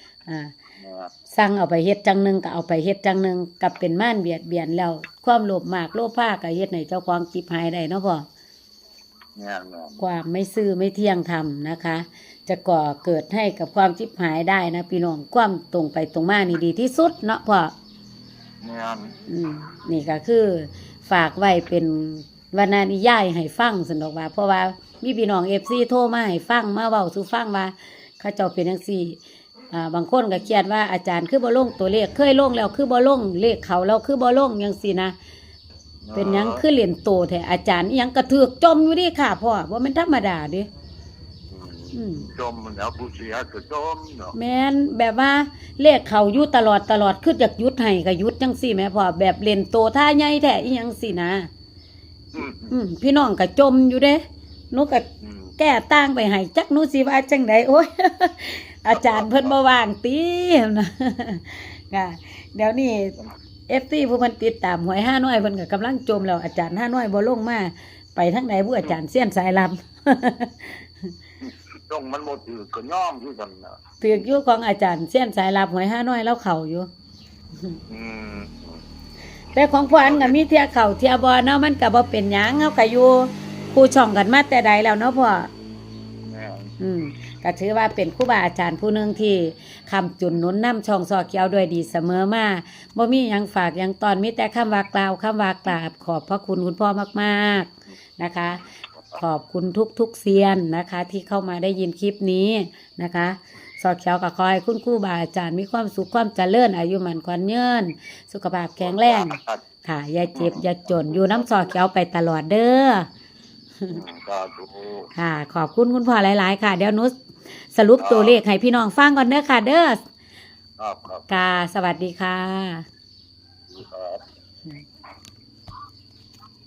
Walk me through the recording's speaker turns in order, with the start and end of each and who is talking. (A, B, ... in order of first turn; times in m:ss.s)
0:00.3-0:00.5 A
0:00.8-0:01.1 B
0:01.3-0:08.3 A
0:09.4-0:10.0 B
0:10.0-0:17.7 A
0:18.6-0:19.2 B
0:19.3-0:29.2 A
0:29.7-0:35.2 A
0:36.0-0:36.6 B
0:36.1-0:40.7 A
0:41.5-0:44.3 B
0:41.9-0:42.3 A
0:44.3-0:51.5 A
0:52.4-0:52.7 B
0:52.4-0:55.1 A
0:55.2-0:55.5 B
0:55.6-1:03.2 A
0:59.0-0:59.5 B
1:03.7-1:11.1 A
1:11.4-1:13.8 B
1:14.0-1:16.9 A
1:17.9-1:18.8 B
1:19.5-1:25.5 A
1:20.0-1:20.4 B
1:26.2-1:26.7 B
1:26.8-1:38.6 A
1:39.2-1:53.1 A
1:48.8-1:49.6 B
1:50.3-1:50.6 B
1:53.9-1:55.1 B
1:55.2-1:57.1 A
1:57.7-2:00.0 A
1:58.0-1:58.4 B
2:00.8-2:01.3 B
2:01.3-2:02.9 A
2:03.7-2:04.2 B